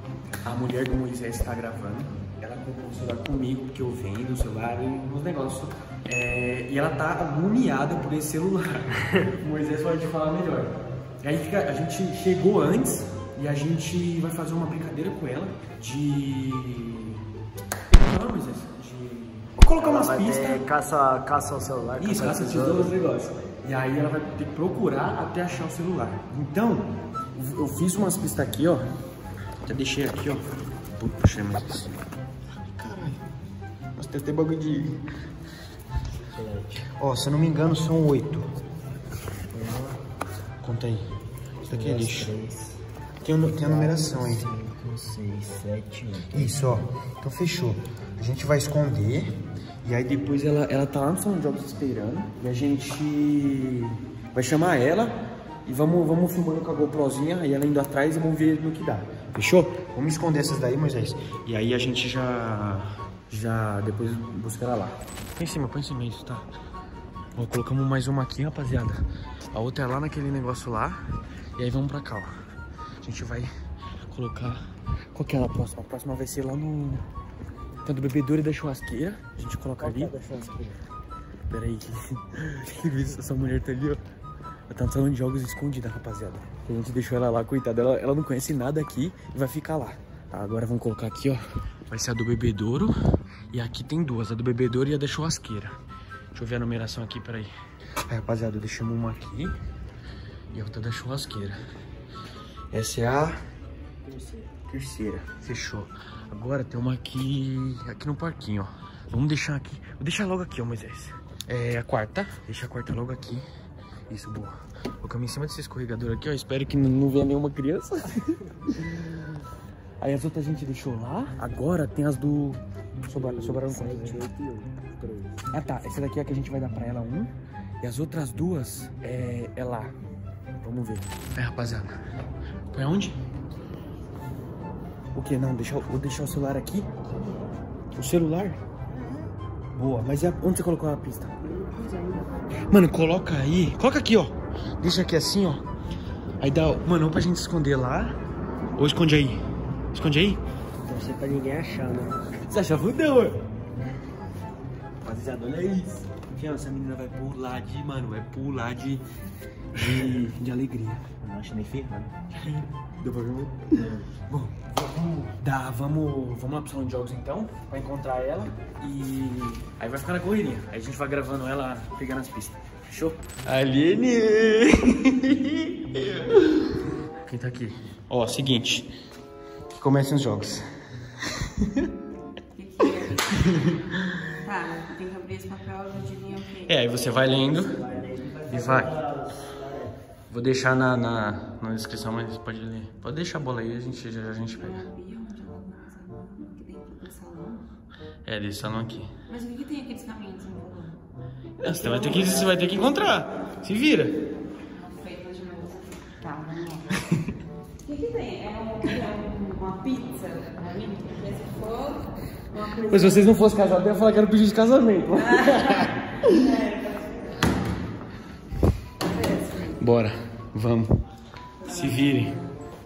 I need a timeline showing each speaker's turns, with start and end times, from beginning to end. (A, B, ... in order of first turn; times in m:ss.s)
0:00.4-0:17.2 A
0:17.9-0:20.6 A
0:19.7-0:22.9 B
0:22.0-0:28.9 A
0:29.6-0:30.4 A
0:31.0-0:32.0 A
0:32.6-0:33.2 A
0:34.0-0:35.0 A
0:36.3-0:36.9 B
0:36.9-0:38.5 A
0:39.5-0:40.0 B
0:40.6-0:41.1 A
0:41.6-0:42.8 B
0:41.7-0:42.3 A
0:43.2-0:44.6 A
0:43.5-0:46.5 B
0:46.3-1:06.4 A
1:07.4-1:11.0 A
1:11.6-1:12.4 A
1:13.0-1:13.5 A
1:14.1-1:14.6 A
1:15.1-1:17.0 A
1:17.8-1:20.1 A
1:19.8-1:20.8 B
1:21.5-1:24.0 A
1:24.7-1:32.9 A
1:33.5-1:35.8 A
1:36.3-1:37.5 A
1:38.1-1:39.5 A
1:40.5-1:41.6 A
1:42.7-1:43.4 A
1:44.0-1:44.5 B
1:44.7-1:53.4 A
1:54.1-1:59.2 A
2:00.0-2:04.2 A
2:03.2-2:05.5 B
2:05.5-2:09.9 A
2:10.6-2:12.0 A
2:12.7-2:13.2 A
2:15.1-2:16.9 A
2:18.0-2:18.6 A
2:19.0-2:19.3 B
2:19.7-2:21.3 A
2:21.4-2:22.5 B
2:22.7-2:25.6 A
2:26.4-2:28.2 A
2:28.8-2:29.4 A
2:29.9-2:30.4 A
2:30.8-2:32.2 B
2:32.5-2:33.4 A
2:35.0-2:39.0 A
2:39.7-2:41.2 A
2:41.2-2:42.1 B
2:42.4-2:58.9 A
2:59.7-3:00.6 A
3:01.4-3:01.9 A
3:02.5-3:07.6 C
3:03.4-3:04.2 A
3:06.7-3:07.8 A
3:07.2-3:09.9 B
3:08.5-3:09.0 A
3:10.3-3:14.8 A
3:14.6-3:17.6 C
3:18.2-3:19.1 A
3:19.3-3:21.0 C
3:21.6-3:24.2 A
3:21.6-3:22.8 C
3:24.7-3:26.9 C
3:27.8-3:33.4 C
3:32.9-3:36.5 A
3:35.1-3:37.5 C
3:39.0-3:39.8 C
3:39.8-3:41.0 A
3:41.6-3:42.4 C
3:41.6-3:42.4 A